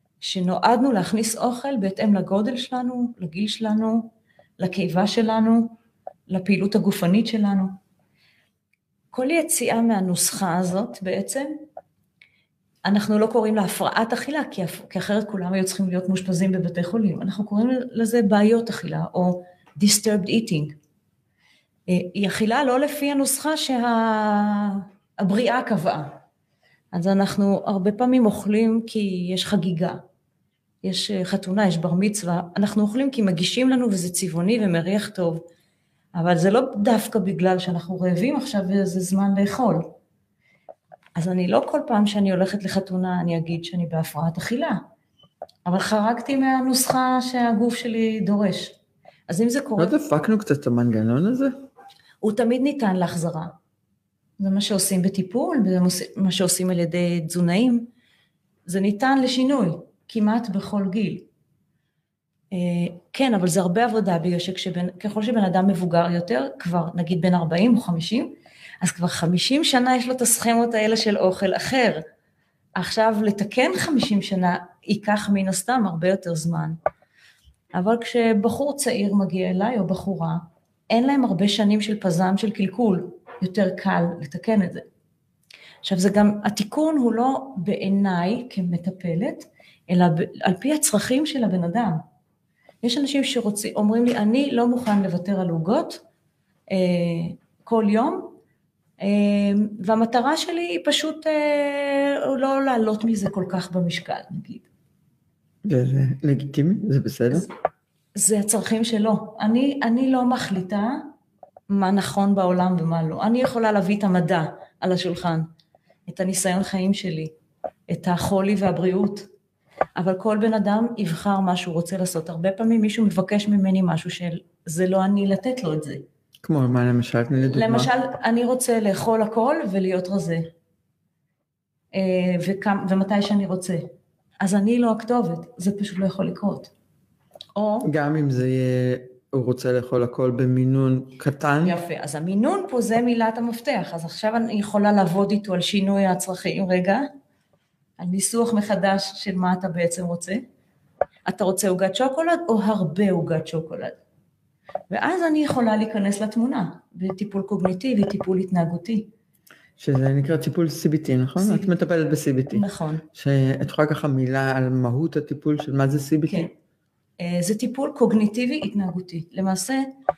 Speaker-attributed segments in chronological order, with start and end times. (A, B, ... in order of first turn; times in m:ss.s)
0:00.2-0:05.8 A
0:06.3-0:07.7 A
0:09.1-0:11.6 A
0:12.9-0:20.8 A
0:21.9-0:26.2 A
0:26.9-0:30.0 A
0:30.8-0:35.4 A
0:36.2-0:39.9 A
0:41.2-0:44.8 A
0:45.7-0:48.8 A
0:49.3-0:49.9 A
0:49.8-0:51.5 B
0:52.2-0:53.6 A
0:54.4-0:57.9 A
0:58.7-1:01.3 A
1:02.5-1:12.0 A
1:12.8-1:16.8 A
1:17.7-1:24.8 A
1:25.8-1:32.0 A
1:32.8-1:36.0 A
1:36.7-1:38.4 A
1:39.0-1:44.7 A
1:45.7-1:47.5 B
1:48.2-1:51.1 A
1:51.7-1:55.5 A
1:56.1-1:57.3 A
1:57.9-1:59.3 A
2:00.0-2:06.1 A
2:06.4-2:07.9 B
2:07.5-2:10.5 A
2:11.9-2:13.8 A
2:14.4-2:16.7 A
2:17.6-2:17.9 A
2:17.8-2:21.8 B
2:21.6-2:27.1 A
2:28.0-2:30.4 A
2:31.3-2:34.0 A
2:34.9-2:39.1 A
2:39.8-2:46.5 B
2:41.4-2:41.7 A
2:42.5-2:43.0 A
2:47.2-2:49.8 A